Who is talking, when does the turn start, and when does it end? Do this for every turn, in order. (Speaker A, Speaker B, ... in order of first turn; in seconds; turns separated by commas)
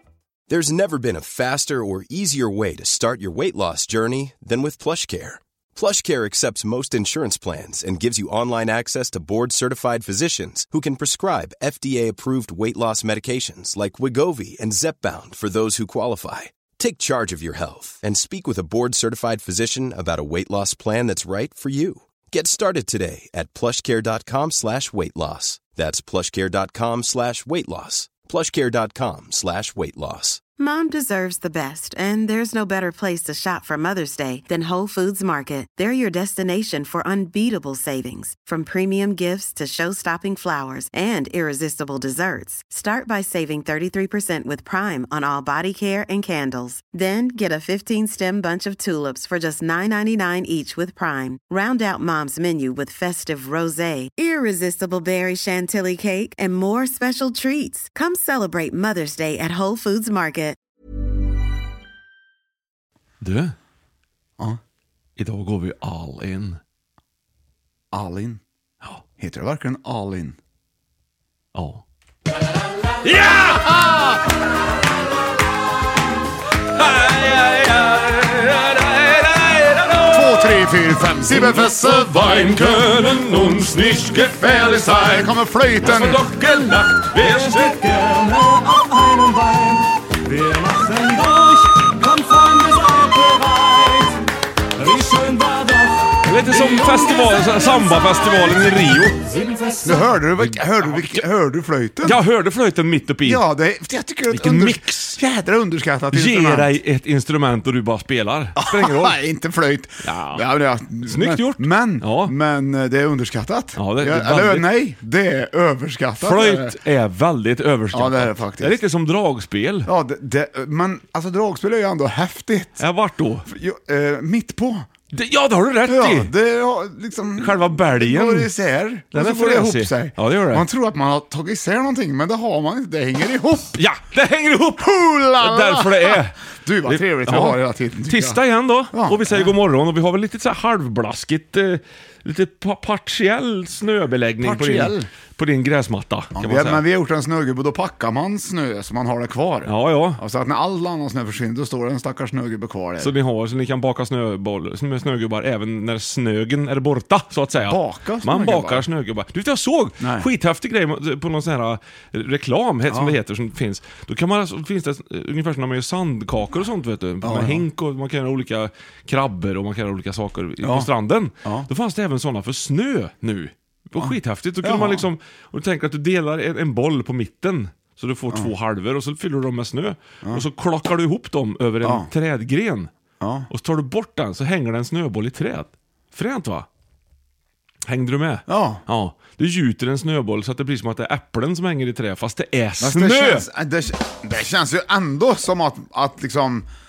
Speaker A: 0.5-30.4, Speaker B: 30.6-60.6, Speaker C: 63.2-63.5, Speaker C: 65.2-66.6, Speaker D: 67.9-68.4, Speaker D: 69.2-70.4, Speaker C: 71.5-71.8, Speaker C: 73.0-74.2, Speaker C: 76.8-80.7, Speaker D: 80.1-82.9, Speaker C: 81.3-87.8, Speaker D: 84.4-86.2, Speaker E: 87.3-94.2, Speaker E: 94.8-98.1, Speaker C: 96.2-99.2, Speaker E: 99.3-99.9, Speaker D: 99.8-102.2, Speaker C: 100.4-101.2, Speaker C: 102.0-103.4, Speaker D: 103.2-106.7, Speaker C: 104.3-105.2, Speaker C: 106.1-109.2, Speaker D: 108.6-116.8, Speaker C: 110.0-110.5, Speaker C: 111.0-112.3, Speaker C: 113.8-114.7, Speaker C: 116.2-119.9, Speaker D: 117.9-118.8, Speaker D: 119.8-122.8, Speaker C: 122.8-123.5, Speaker D: 123.5-124.9, Speaker C: 125.1-126.3, Speaker D: 125.8-133.8, Speaker C: 127.4-128.5, Speaker C: 129.1-130.7, Speaker C: 133.8-146.8, Speaker D: 134.8-138.4, Speaker D: 138.9-139.5, Speaker D: 144.4-145.1, Speaker D: 146.3-153.1, Speaker C: 149.7-150.2, Speaker C: 153.0-182.9, Speaker D: 157.6-158.8, Speaker D: 160.0-160.3, Speaker D: 162.9-163.2, Speaker D: 167.2-167.6, Speaker D: 170.6-170.9, Speaker D: 171.4-171.7, Speaker D: 174.0-175.1, Speaker D: 181.8-182.1, Speaker D: 183.2-183.5, Speaker C: 183.5-186.7, Speaker C: 187.9-193.5, Speaker D: 188.5-188.8, Speaker D: 192.8-196.7